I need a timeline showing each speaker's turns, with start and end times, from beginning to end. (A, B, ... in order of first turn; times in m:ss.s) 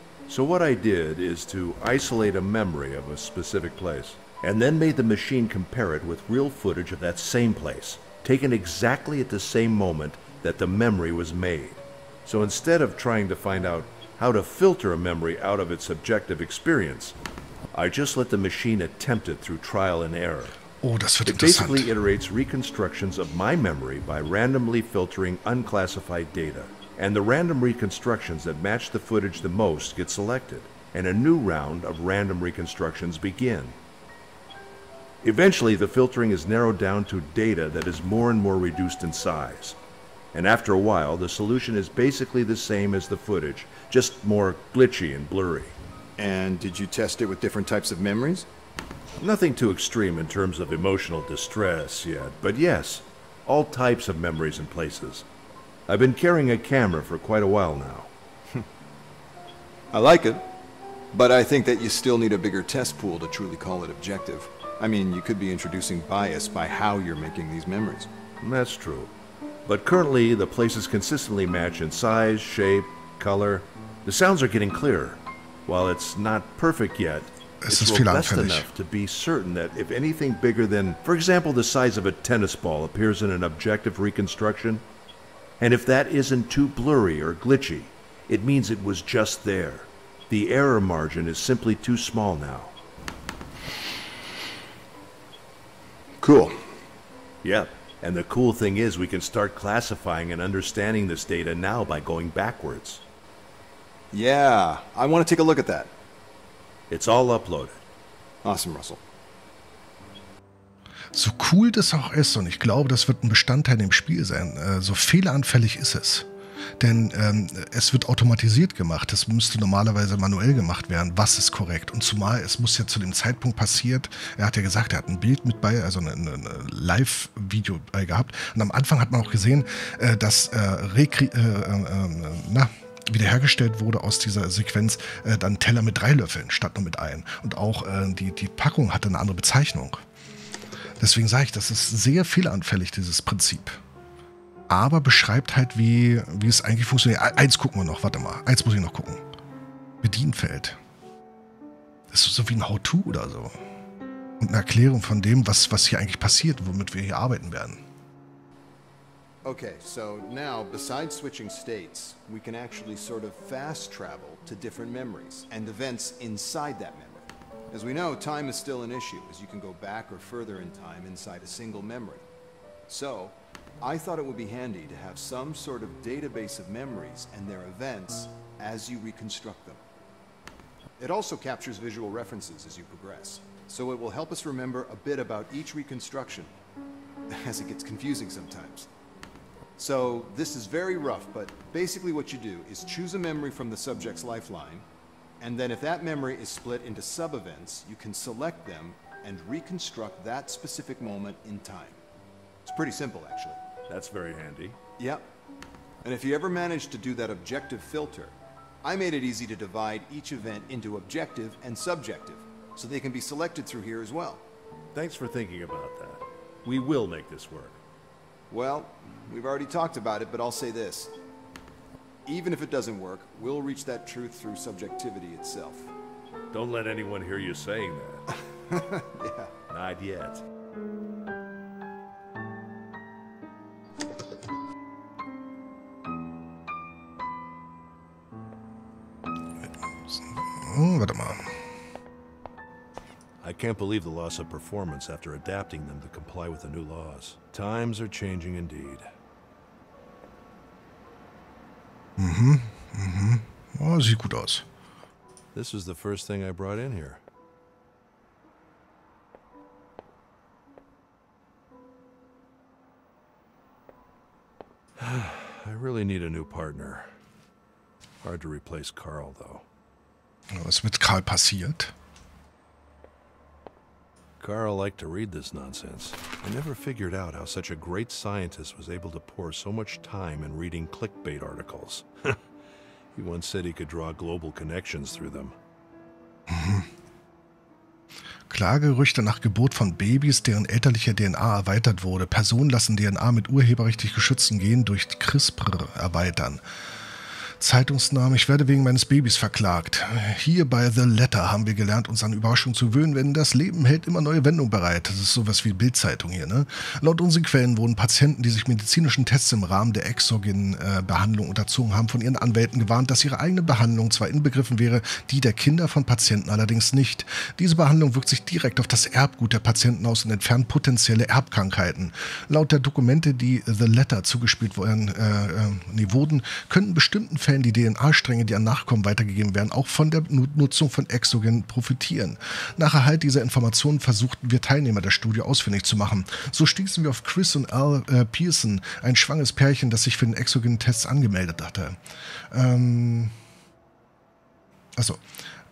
0:00.3-0:17.2 A
0:17.7-0:20.6 A
0:20.8-0:21.9 B
0:21.2-0:33.8 A
0:35.2-0:39.8 A
0:40.3-0:45.8 A
0:46.2-0:48.5 C
0:49.2-0:55.3 A
0:55.9-0:58.1 A
0:59.9-1:00.5 C
1:01.1-1:08.1 C
1:08.4-1:09.1 A
1:09.6-1:24.8 A
1:17.6-1:18.7 B
1:25.6-1:32.8 A
1:36.2-1:36.6 C
1:37.4-1:43.0 A
1:44.1-1:45.9 C
1:46.9-1:47.8 A
1:48.4-1:49.0 C
1:51.1-1:56.3 B
1:56.8-2:20.0 B
2:21.0-2:23.8 B
2:24.7-2:29.2 B
2:30.0-2:30.8 B
2:32.1-2:33.6 B
2:34.4-2:37.8 B
2:39.4-2:52.2 C
2:52.9-2:59.8 C
3:01.0-3:06.5 C
3:07.3-3:08.9 C
3:09.8-3:14.8 C
3:15.4-3:22.0 C
3:22.6-3:23.6 C
3:23.9-3:24.8 A
3:25.0-3:25.3 C
3:26.0-3:34.4 C
3:34.9-3:37.8 A
3:38.5-3:41.1 C
3:42.3-3:45.9 C
3:46.5-3:48.3 A
3:48.7-3:49.5 C
3:49.7-3:50.4 A
3:59.6-4:01.6 B
4:03.4-4:09.1 A
4:12.2-4:14.6 B
4:15.5-4:17.2 A
4:25.0-4:27.1 A
4:28.2-4:29.6 A
4:30.5-4:31.9 B
4:34.4-4:42.4 A
4:43.1-4:45.6 A
4:46.5-4:46.9 B
4:48.5-4:56.6 B
4:57.6-5:42.0 B
5:42.5-5:43.3 B
5:45.0-5:45.2 B